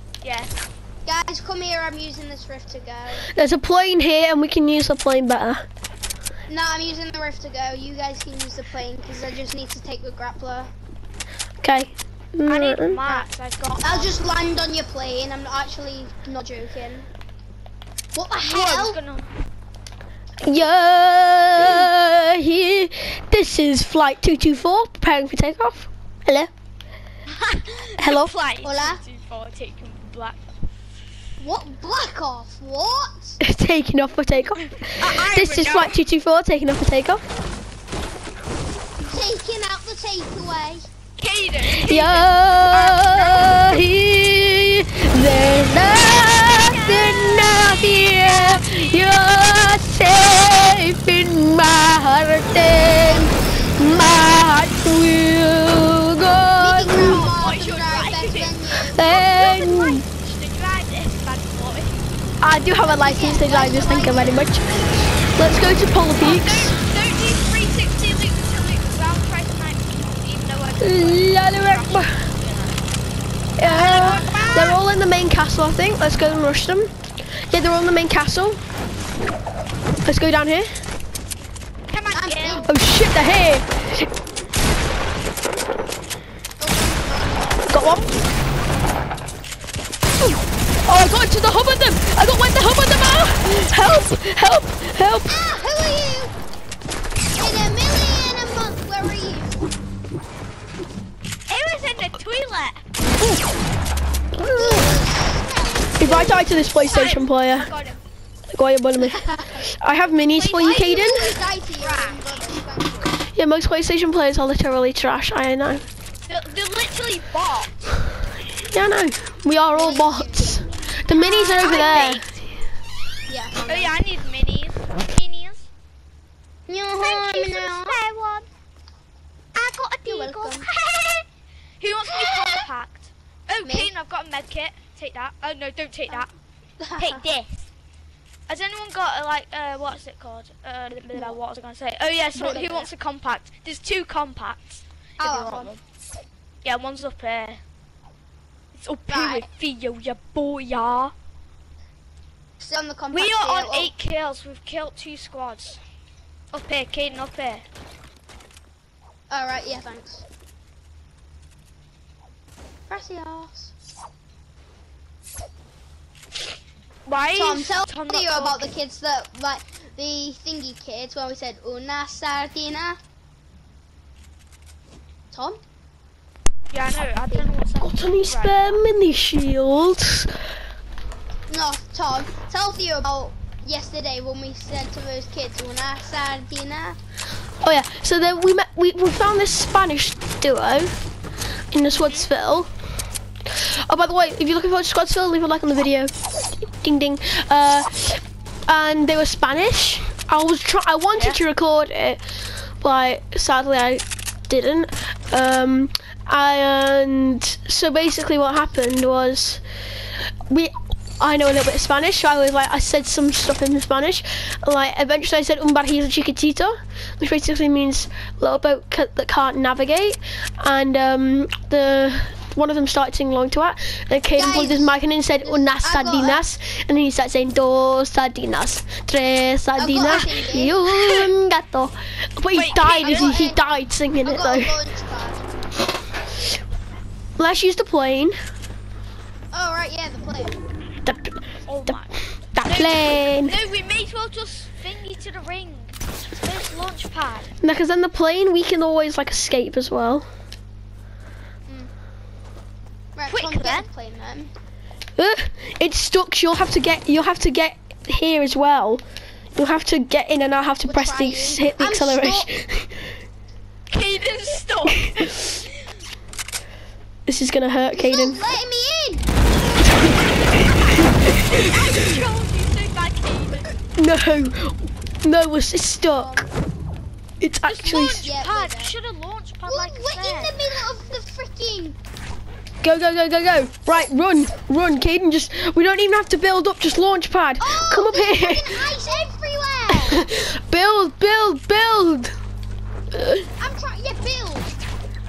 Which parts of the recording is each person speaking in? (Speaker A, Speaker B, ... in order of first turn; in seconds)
Speaker A: 0.2-0.6, 12.4-14.5, 18.4-19.3, 27.3-30.4, 34.6-36.0, 41.2-43.8, 46.3-49.3, 57.0-62.0, 66.2-72.8, 73.6-74.8, 81.9-82.7, 101.5-102.8, 106.7-108.0, 110.2-112.2, 116.3-117.8, 121.2-122.2, 123.7-125.7, 127.0-128.5, 129.5-131.2, 131.8-136.3, 137.0-137.7, 138.5-145.8, 146.6-147.6, 148.7-151.1, 153.1-155.8, 156.5-157.6, 167.1-168.7, 176.7-178.8, 191.9-192.3, 230.9-231.3, 232.5-233.4, 241.7-247.5, 253.3-253.9, 263.9-265.8, 271.2-273.7, 277.6-280.6
Speaker B: 1.1-3.2, 6.5-10.7, 13.8-17.1, 18.1-19.0, 28.6-29.0, 31.4-33.4, 39.0-40.9, 52.8-54.4, 56.6-59.1, 62.8-65.0, 82.1-82.7, 86.6-87.8, 95.3-96.3, 97.3-99.6, 104.5-106.6, 109.0-109.7, 110.6-113.2, 119.7-122.0, 123.3-124.0, 126.7-128.0, 130.0-130.7, 132.1-132.7, 133.6-133.9, 136.8-137.2, 142.3-142.9, 145.2-145.8, 149.1-149.4, 152.6-153.9, 159.3-160.2, 162.9-163.7, 167.3-173.0, 175.3-175.6, 181.5-187.0, 224.3-226.4, 229.8-230.8, 232.9-233.6, 234.2-235.4, 239.5-240.6, 253.1-254.5, 260.9-262.5, 267.9-269.3, 276.1-276.4, 278.1-278.9, 279.6-281.9, 287.6-290.2, 293.6-294.7
Speaker C: 3.3-5.6, 11.6-13.0, 20.4-26.5, 28.0-28.3, 33.4-37.2, 41.6-57.3, 58.9-60.0, 62.4-64.7, 65.3-66.8, 70.8-72.2, 73.6-76.9, 77.5-78.6, 80.0-80.7, 82.6-84.1, 87.7-88.2, 90.2-95.3, 104.3-104.9, 106.0-107.7, 108.5-111.3, 113.3-115.8, 118.7-122.2, 177.8-180.3, 187.6-190.9, 191.7-192.7, 193.5-196.1, 196.8-202.2, 202.8-209.6, 210.5-234.8, 237.4-238.3, 241.0-243.5, 247.6-250.2, 255.2-259.0, 259.5-263.1, 267.3-268.4, 269.8-271.4, 273.9-276.4, 277.4-278.3, 282.8-288.8, 289.9-292.3, 293.1-293.5